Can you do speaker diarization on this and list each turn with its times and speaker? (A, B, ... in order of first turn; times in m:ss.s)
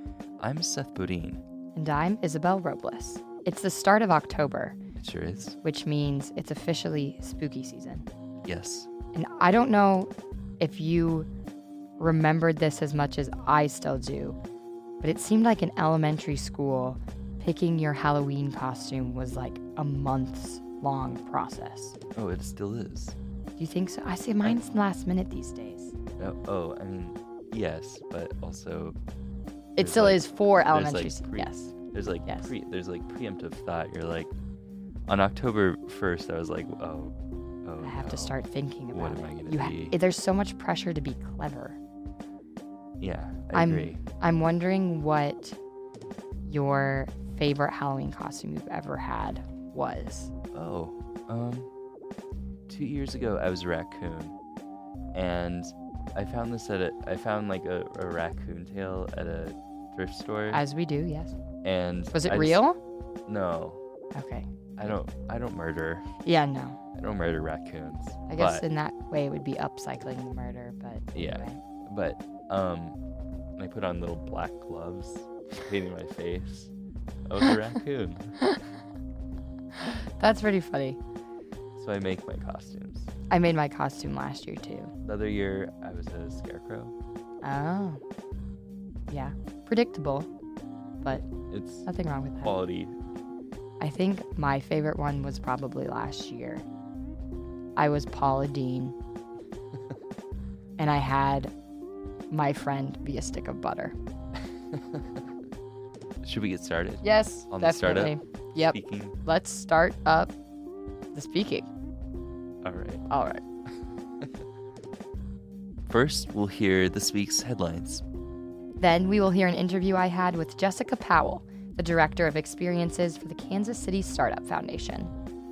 0:00.4-0:01.4 A
0:01.8-0:04.8 B
0:05.0-0:05.6 A
0:05.6-0:08.1 B
0:08.4-0:08.9 A
0:09.1-0:11.3 B
0:12.0-0:14.4 B
0:15.0-0:22.0 B
0:22.1-0:23.2 A
0:23.6-0:26.0 B
0:26.2-0:29.0 A
0:29.8-0:32.5 B
0:29.8-0:34.3 A
0:35.1-0:38.4 A
0:37.8-0:41.8 B
0:38.9-0:39.9 A
0:43.0-0:44.0 A
0:43.5-0:45.6 B
0:46.4-0:50.3 B
0:50.5-0:51.7 A
0:52.7-0:54.4 A
0:55.1-1:00.6 A
1:00.5-1:01.4 B
1:01.6-1:02.6 A
1:02.1-1:02.8 B
1:03.3-1:03.8 A
1:04.1-1:04.5 B
1:04.8-1:06.2 A
1:06.2-1:06.8 B
1:07.0-1:08.6 A
1:08.3-1:11.6 B
1:11.2-1:13.0 A
1:13.6-1:16.7 A
1:17.2-1:18.3 A
1:19.8-1:21.0 B
1:21.8-1:23.1 A
1:23.3-1:24.9 B
1:25.0-1:27.0 A
1:27.4-1:28.0 B
1:29.1-1:30.3 B
1:31.1-1:31.9 A
1:31.8-1:32.5 B
1:32.4-1:33.0 A
1:33.8-1:36.6 B
1:37.8-1:39.0 B
1:40.8-1:41.5 B
1:42.3-1:44.0 B
1:46.2-1:49.2 A
1:47.0-1:50.3 B
1:51.1-1:51.7 B
1:52.6-1:53.1 A
1:53.1-1:53.4 B
1:55.9-1:58.0 A
1:58.8-2:05.1 B